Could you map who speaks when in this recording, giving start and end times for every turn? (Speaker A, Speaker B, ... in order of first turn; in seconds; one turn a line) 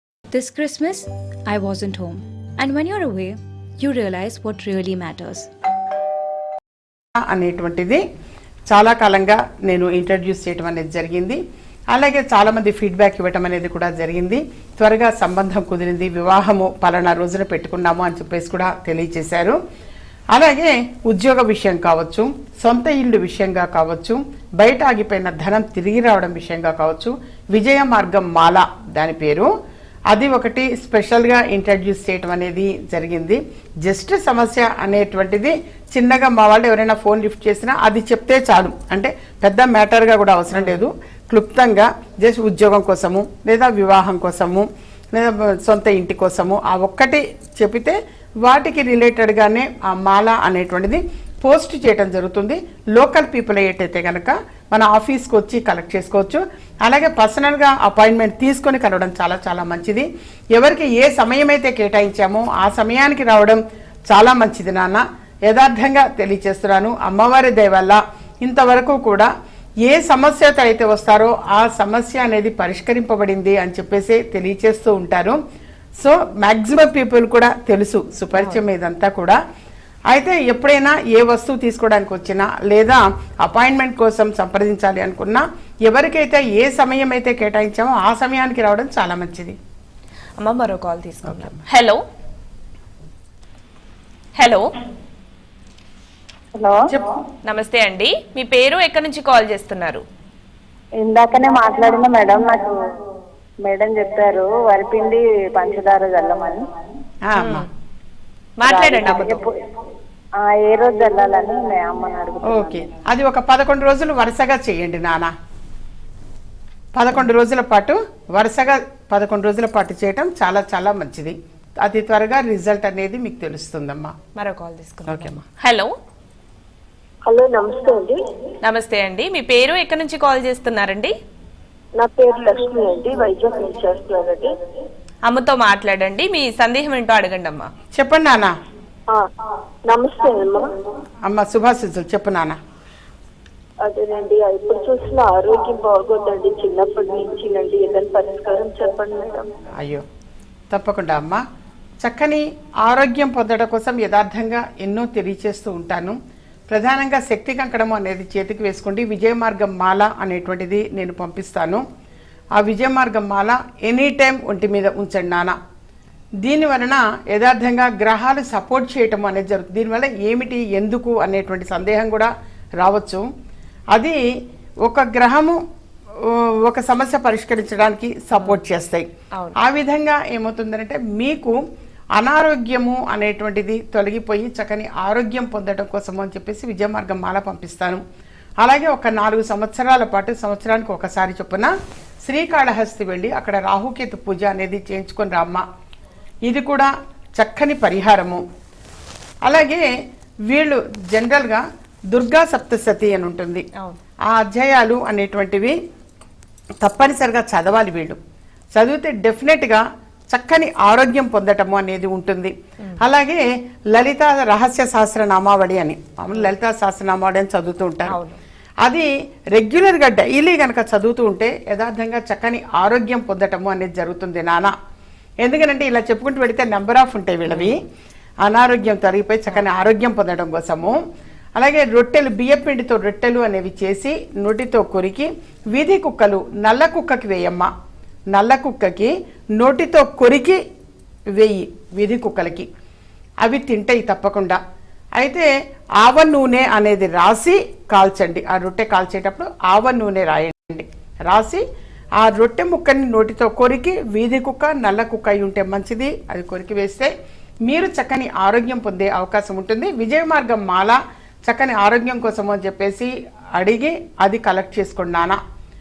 Speaker A: 0.3-5.5
Speaker B: 7.2-8.0
Speaker B: 8.7-11.4
Speaker B: 11.9-19.6
Speaker B: 20.3-29.5
Speaker B: 30.1-69.3
Speaker C: 40.5-40.8
Speaker B: 69.8-75.4
Speaker B: 76.0-79.4
Speaker C: 78.4-78.6
Speaker B: 80.1-89.6
Speaker C: 90.4-92.0
Speaker B: 91.3-91.6
Speaker C: 94.4-94.7
Speaker C: 97.5-100.0
Speaker D: 101.0-102.7
Speaker D: 103.6-106.6
Speaker B: 107.3-107.7
Speaker C: 107.4-107.7
Speaker C: 108.6-109.4
Speaker D: 108.6-109.6
Speaker D: 110.4-112.9
Speaker B: 112.5-115.3
Speaker B: 117.0-124.2
Speaker C: 124.4-125.9
Speaker B: 125.1-125.4
Speaker E: 127.2-128.2
Speaker C: 128.6-131.1
Speaker E: 132.0-134.5
Speaker C: 135.3-137.7
Speaker B: 137.9-138.6
Speaker E: 139.9-140.7
Speaker B: 141.2-142.6
Speaker E: 143.8-149.5
Speaker B: 149.8-150.1
Speaker B: 150.7-151.4
Speaker B: 152.0-156.2
Speaker B: 156.7-161.8
Speaker B: 162.6-165.6
Speaker B: 166.4-173.2
Speaker B: 173.9-174.2
Speaker B: 174.8-175.6
Speaker B: 176.2-181.6
Speaker C: 178.4-178.6
Speaker B: 182.2-188.0
Speaker B: 188.6-191.7
Speaker B: 192.2-195.7
Speaker B: 196.4-198.4
Speaker B: 199.4-199.9
Speaker B: 200.5-203.7
Speaker B: 204.3-205.8
Speaker B: 206.8-208.2
Speaker B: 208.8-218.2
Speaker C: 218.1-218.4
Speaker B: 218.8-224.8
Speaker B: 225.4-227.8
Speaker C: 227.5-227.8
Speaker B: 228.4-231.0
Speaker B: 231.6-237.7
Speaker B: 238.3-240.6
Speaker B: 241.3-242.7
Speaker B: 243.4-244.6
Speaker B: 245.2-245.5
Speaker B: 246.0-251.6
Speaker B: 252.2-257.1
Speaker B: 257.7-265.4